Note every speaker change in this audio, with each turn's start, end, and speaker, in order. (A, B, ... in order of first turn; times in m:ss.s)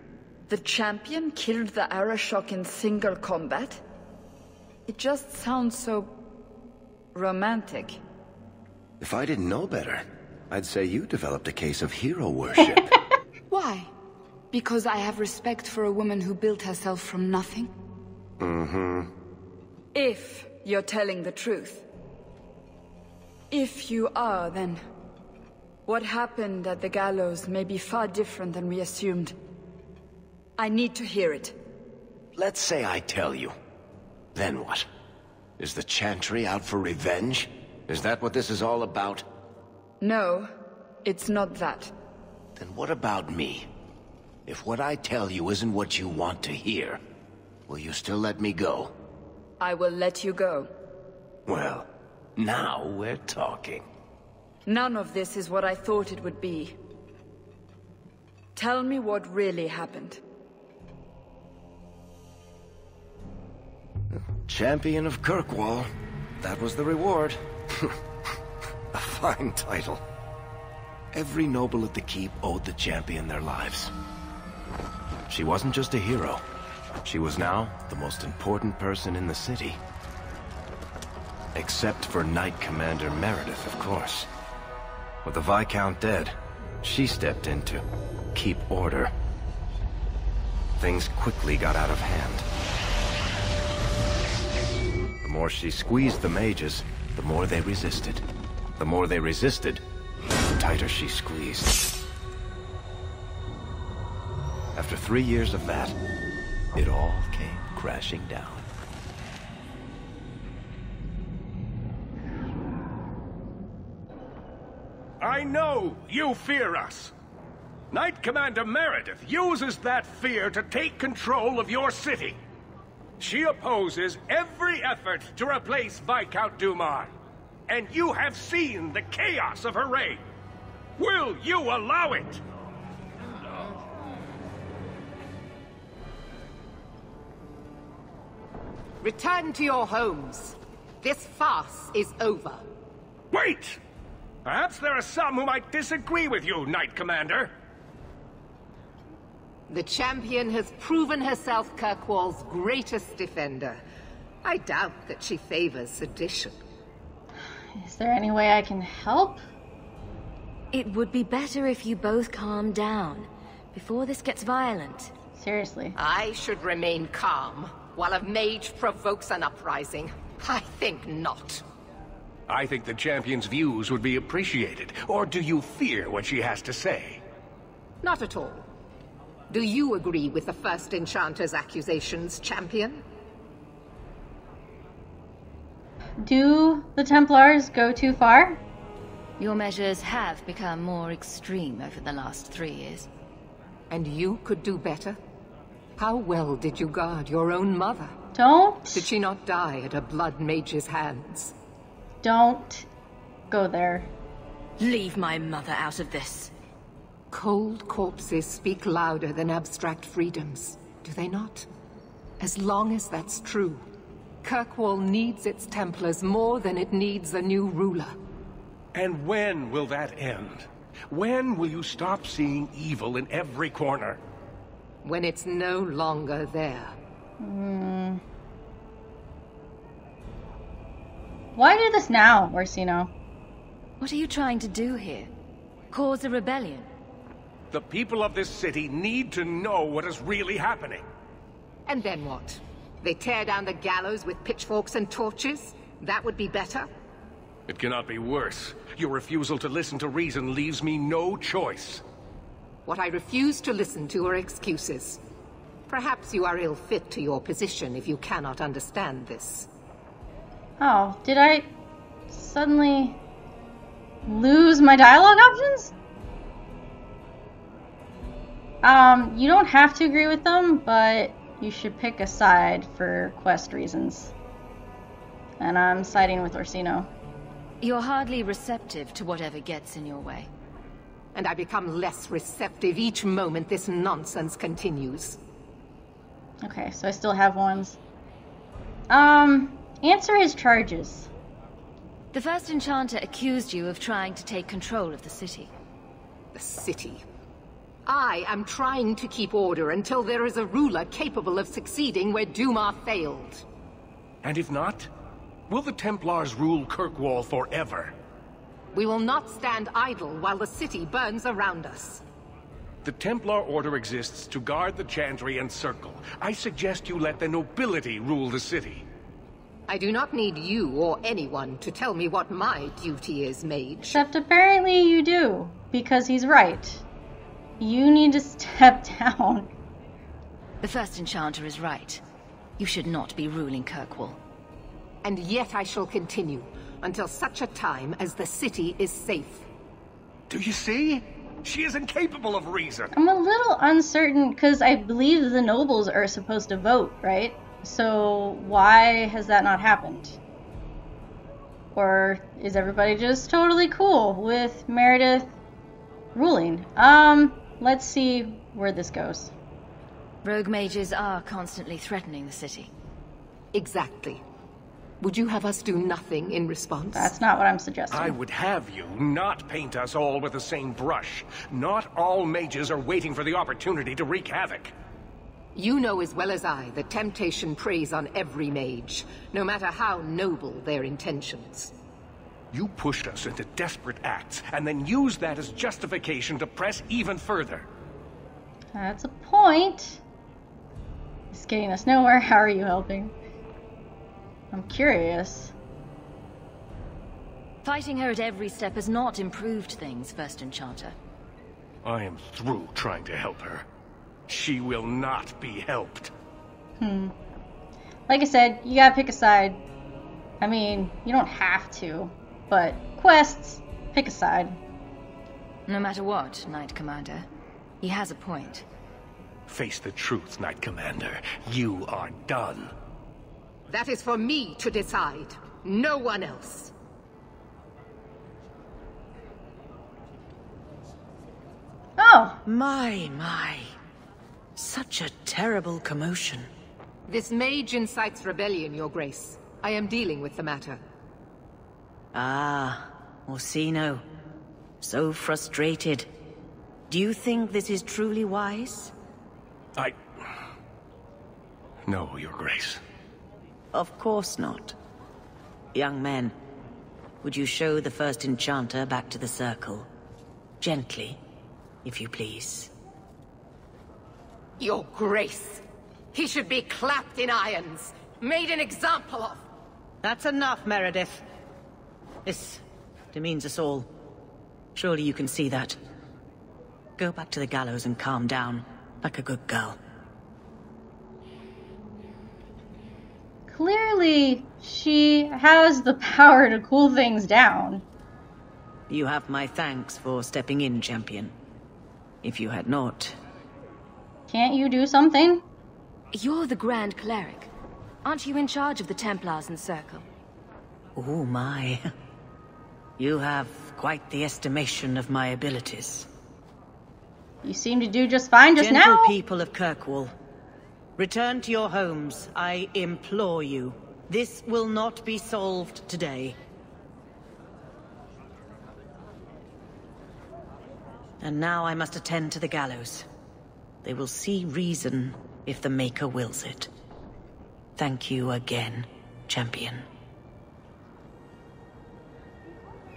0:00.5-0:03.8 A
0:04.9-0:06.1 A
0:07.1-0:08.0 A
0:09.0-0:12.9 B
0:13.5-0:13.9 A
0:14.5-0:17.7 A
0:18.4-0:19.1 B
0:19.9-0:21.8 A
0:23.5-0:24.8 A
0:25.8-0:29.4 A
0:30.6-0:31.6 A
0:32.4-0:33.6 B
0:34.3-0:34.9 B
0:35.6-0:39.2 B
0:40.0-0:40.5 A
0:41.0-0:41.9 A
0:42.6-0:43.7 B
0:44.5-0:47.0 B
0:47.7-0:48.9 B
0:49.6-0:50.7 A
0:51.5-0:53.8 B
0:54.6-0:56.8 A
0:58.6-1:00.2 A
1:04.4-1:05.9 B
1:06.4-1:07.9 B
1:08.9-1:10.0 B
1:11.1-1:13.9 B
1:15.3-1:16.4 B
1:17.0-1:19.8 B
1:21.5-1:24.3 B
1:25.2-1:29.1 B
1:30.8-1:32.4 B
1:35.2-1:38.2 B
1:38.8-1:39.8 B
1:40.5-1:41.9 B
1:44.7-1:46.0 B
1:46.7-1:48.6 B
1:55.2-1:57.1 C
1:57.9-2:02.4 C
2:03.2-2:07.1 C
2:07.7-2:10.2 C
2:11.0-2:12.4 C
2:19.0-2:22.6 D
2:23.3-2:23.8 C
2:24.4-2:27.5 C
2:29.7-2:33.8 D
2:34.4-2:36.6 D
2:37.7-2:39.4 E
2:40.7-2:45.1 F
2:45.4-2:46.0 E
2:46.0-2:51.6 D
2:52.5-2:57.2 C
2:58.0-2:58.6 D
2:59.5-3:03.0 D
3:06.2-3:08.6 E
3:09.4-3:13.1 F
3:13.9-3:15.2 D
3:16.0-3:18.1 D
3:18.3-3:19.1 E
3:18.9-3:21.5 D
3:22.2-3:22.9 E
3:23.5-3:24.1 E
3:24.8-3:26.5 F
3:27.3-3:31.7 D
3:32.4-3:33.8 D
3:34.4-3:38.1 D
3:38.9-3:44.2 C
3:45.0-3:46.9 D
3:47.4-3:48.2 E
3:51.5-3:53.1 E
3:54.0-3:55.3 F
3:55.9-3:56.9 F
3:57.7-4:01.0 C
4:01.9-4:06.9 D
4:07.7-4:12.0 C
4:12.8-4:15.2 D
4:15.9-4:19.7 D
4:20.8-4:21.7 E
4:22.3-4:23.2 E
4:24.2-4:25.9 E
4:28.8-4:34.3 E
4:35.6-4:37.1 E
4:37.8-4:40.5 F
4:41.3-4:45.4 D
4:46.6-4:48.0 E
4:49.1-4:51.3 E
4:52.3-4:55.7 F
4:56.5-4:57.2 D
4:58.0-5:03.6 D
5:04.4-5:05.1 C
5:05.7-5:08.1 C
5:08.9-5:12.2 D
5:13.0-5:19.0 C
5:19.9-5:24.2 D
5:24.0-5:27.0 E
5:27.8-5:29.7 E
5:30.8-5:32.2 F
5:32.8-5:34.4 F
5:35.2-5:39.7 D
5:40.5-5:43.1 C
5:43.1-5:50.4 E
5:51.9-5:55.5 E
5:56.3-5:59.5 E
6:00.4-6:02.9 F
6:03.7-6:04.4 D
6:05.2-6:07.3 D
6:07.1-6:08.4 E
6:08.1-6:14.9 C
6:15.7-6:21.9 D
6:22.7-6:27.8 C
6:28.9-6:30.2 E
6:31.5-6:33.3 E
6:34.7-6:35.7 E
6:37.8-6:41.2 F
6:42.0-6:43.8 C
6:44.5-6:46.3 C
6:47.0-6:47.3 E
6:48.3-6:49.8 E
6:50.6-6:54.8 E
6:55.9-6:57.5 F
6:58.0-6:58.8 F
6:59.7-7:02.9 C
7:03.9-7:06.9 D
7:12.2-7:12.6 E
7:12.6-7:13.9 G
7:14.8-7:16.7 G
7:17.3-7:21.0 D
7:22.3-7:24.2 G
7:25.0-7:26.3 G
7:27.1-7:29.1 G
7:32.1-7:33.0 C
7:33.9-7:35.0 G
7:35.9-7:36.5 G
7:37.4-7:40.1 G
7:40.8-7:41.4 G
7:42.0-7:42.9 G
7:44.8-7:49.6 D
7:50.2-7:51.4 G
7:52.4-7:54.1 G
7:54.9-7:56.0 G
7:57.2-8:00.0 G
8:03.7-8:08.0 E
8:09.1-8:11.5 G
8:12.4-8:13.4 G
8:14.5-8:15.6 E
8:16.3-8:17.7 F
8:18.2-8:20.2 F
8:21.2-8:22.1 G
8:23.2-8:26.3 G
8:27.6-8:29.3 E
8:28.8-8:30.3 G
8:31.2-8:36.6 G
8:41.4-8:43.3 G
8:44.0-8:46.9 G
8:48.0-8:50.0 G